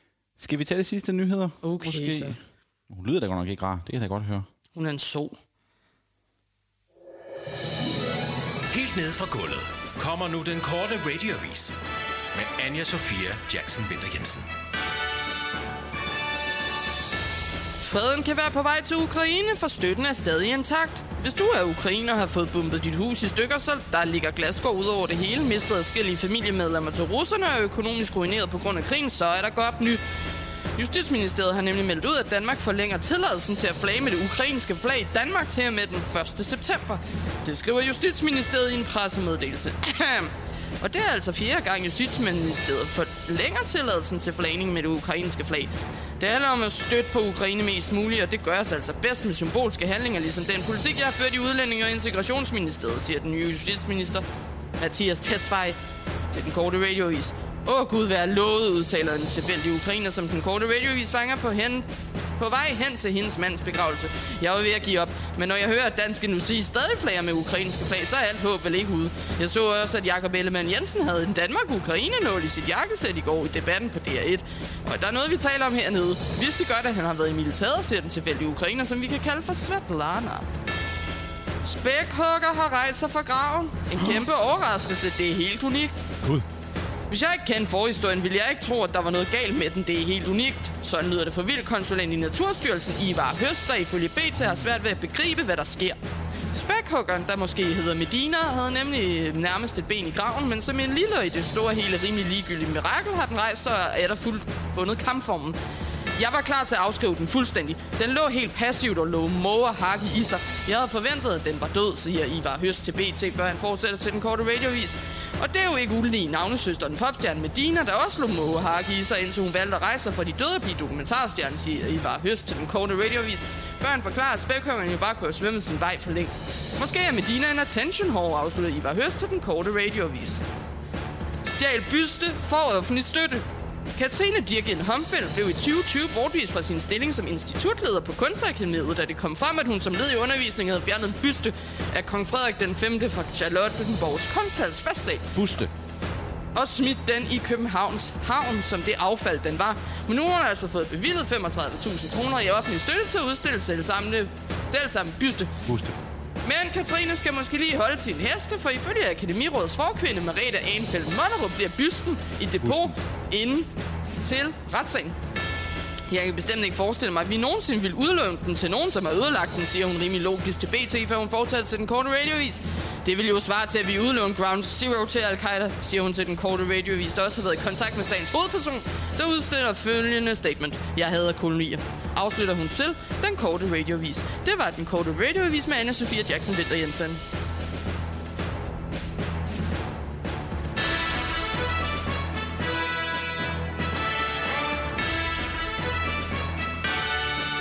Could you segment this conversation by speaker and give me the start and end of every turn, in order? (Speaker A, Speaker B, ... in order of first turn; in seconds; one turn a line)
Speaker A: 0.4-4.5
Speaker B: 1.6-2.4
Speaker B: 4.7-5.3
Speaker C: 8.7-11.8
Speaker C: 12.3-14.5
Speaker B: 17.8-30.0
Speaker B: 30.8-54.2
Speaker B: 54.8-55.8
Speaker B: 56.3-61.9
Speaker B: 62.4-80.5
Speaker B: 81.6-86.1
Speaker B: 87.1-96.0
Speaker B: 96.5-105.6
Speaker B: 106.1-130.4
Speaker B: 131.4-133.4
Speaker B: 133.9-145.3
Speaker A: 145.3-145.7
Speaker B: 146.5-155.6
Speaker A: 155.7-155.9
Speaker B: 156.4-165.2
Speaker A: 162.6-162.9
Speaker B: 166.1-187.2